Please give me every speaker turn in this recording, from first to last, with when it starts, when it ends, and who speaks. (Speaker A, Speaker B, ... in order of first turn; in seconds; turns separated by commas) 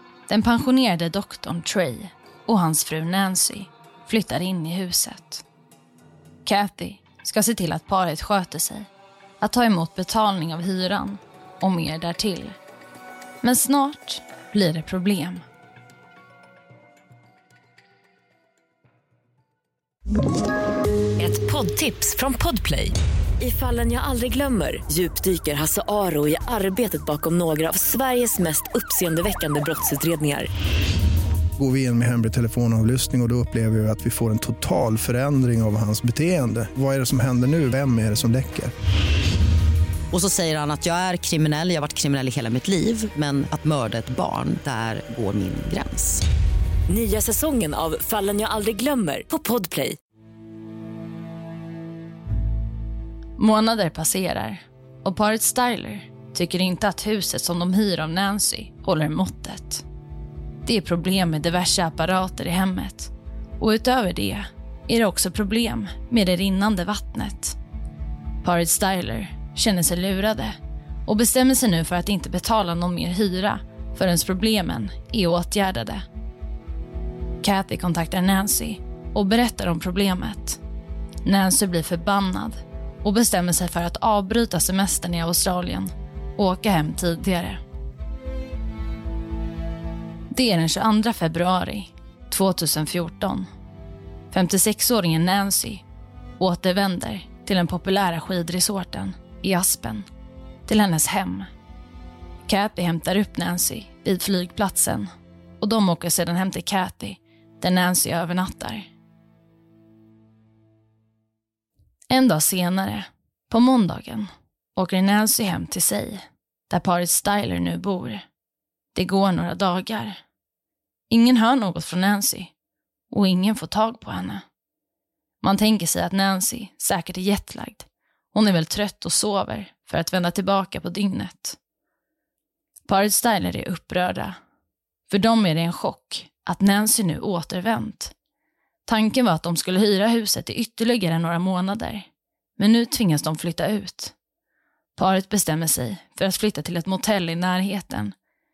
Speaker A: 0.3-5.4, Speaker A: 6.4-8.9, Speaker A: 9.4-12.6, Speaker A: 13.4-15.4, Speaker B: 21.2-30.5, Speaker C: 31.6-38.7, Speaker D: 40.1-46.2, Speaker B: 46.9-50.0, Speaker A: 53.4-59.8, Speaker A: 60.6-67.6, Speaker A: 68.4-76.0, Speaker A: 77.4-80.6, Speaker A: 81.2-87.6, Speaker A: 90.3-93.5, Speaker A: 94.3-95.8, Speaker A: 96.4-100.0, Speaker A: 100.7-101.5, Speaker A: 102.4-105.1, Speaker A: 105.6-108.9, Speaker A: 112.1-118.2, Speaker A: 118.9-120.2, Speaker A: 121.1-122.5, Speaker A: 123.1-124.4, Speaker A: 125.4-131.6, Speaker A: 132.9-134.4, Speaker A: 135.1-138.1, Speaker A: 138.8-144.1, Speaker A: 144.9-148.1